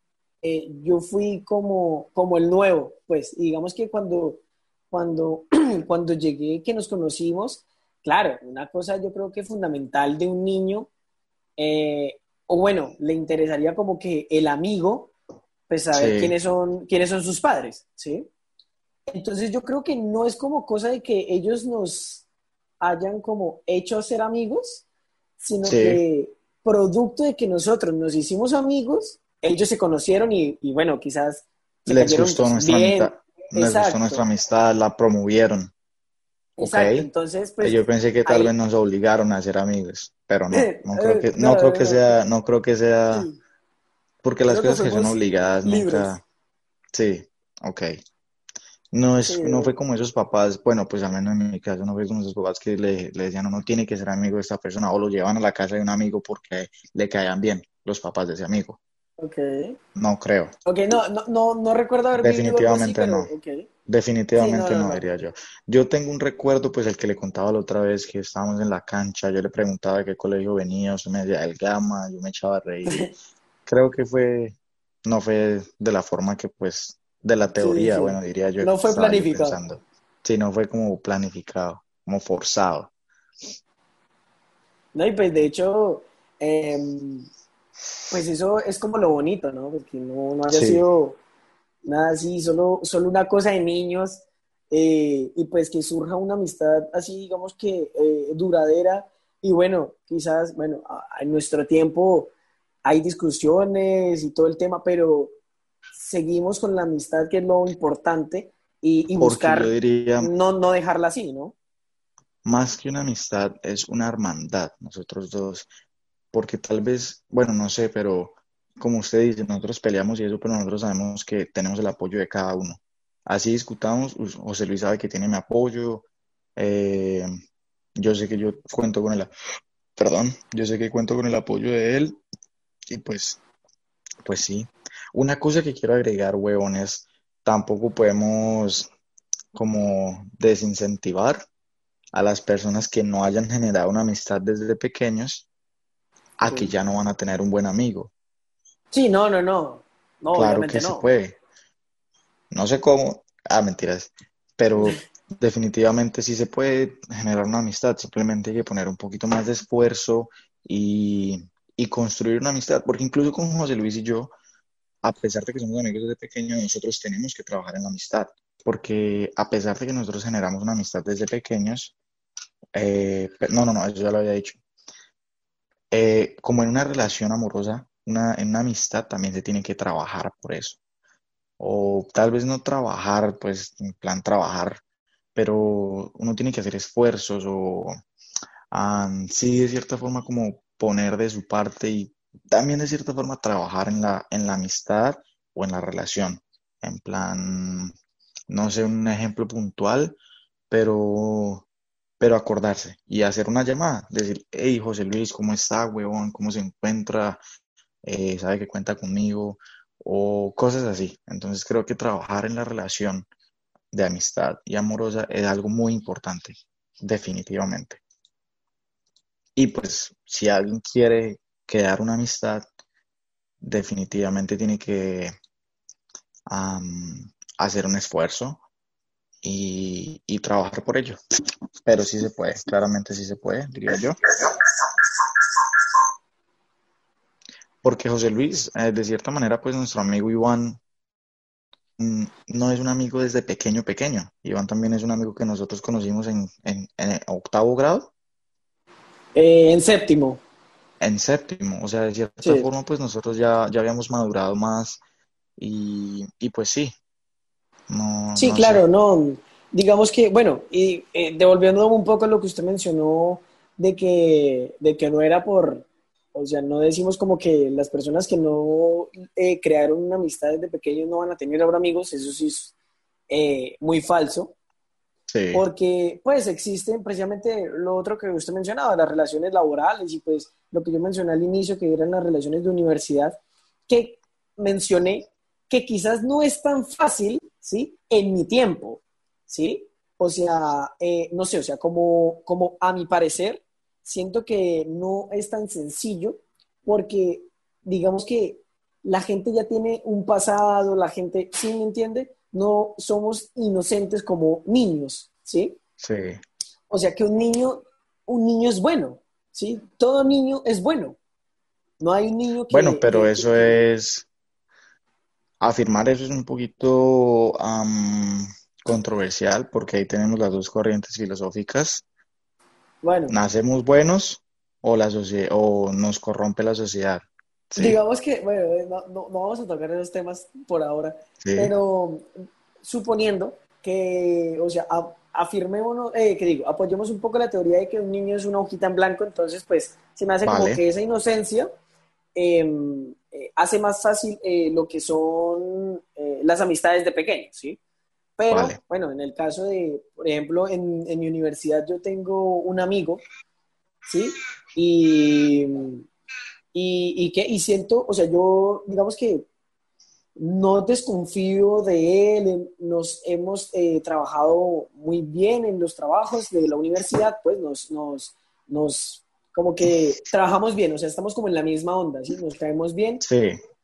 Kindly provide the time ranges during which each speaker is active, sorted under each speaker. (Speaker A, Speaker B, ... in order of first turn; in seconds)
Speaker A: 0.4-4.4, 4.9-10.9, 11.6-15.1, 15.7-18.3, 19.1-22.2, 22.8-24.9, 25.4-34.2, 36.6-38.5, 40.5-42.2, 43.1-43.4, 44.5-46.2, 49.2-49.8, 59.2-59.8, 60.7-63.7, 64.4-65.0, 72.9-73.1, 77.6-79.6, 85.0-87.3, 88.1-91.2, 91.8-102.3, 102.8-105.3, 105.9-111.5, 146.5-146.7, 148.9-151.1, 249.3-250.4, 252.4-252.7, 258.4-272.7, 273.3-274.6, 275.5-305.8, 306.9-311.2, 312.0-313.8, 323.0-323.4, 327.8-332.3, 332.8-341.7, 342.4-347.8, 348.4-353.2, 354.1-356.1, 356.7-359.5, 360.4-373.2
Speaker B: 15.9-16.3, 25.6-26.0, 31.9-35.7, 36.6-37.1, 37.6-43.3, 44.2-46.2, 46.9-48.0, 48.9-58.8, 60.0-60.5, 62.2-63.3, 63.9-73.1, 73.7-82.9, 90.5-90.8, 109.2-110.3, 112.5-115.7, 116.3-126.1, 126.6-127.3, 128.0-129.3, 130.0-132.2, 132.9-133.4, 134.2-138.9, 139.6-141.4, 142.1-145.5, 146.4-148.1, 150.3-151.4, 152.5-164.3, 165.0-171.9, 172.8-174.6, 175.9-180.8, 181.6-184.8, 185.3-188.0, 188.7-197.9, 198.5-200.2, 200.7-201.7, 202.2-207.4, 208.0-213.3, 213.9-218.0, 219.6-222.7, 223.6-225.3, 226.5-228.6, 229.4-231.2, 231.8-234.7, 237.8-240.8, 242.0-248.1, 251.0-255.0, 255.6-256.9, 257.9-258.8, 275.3-275.6, 306.0-306.4, 312.7-314.3, 315.6-322.0, 323.3-328.0, 331.4-331.7, 340.4-340.8, 348.5-348.8, 373.2-373.6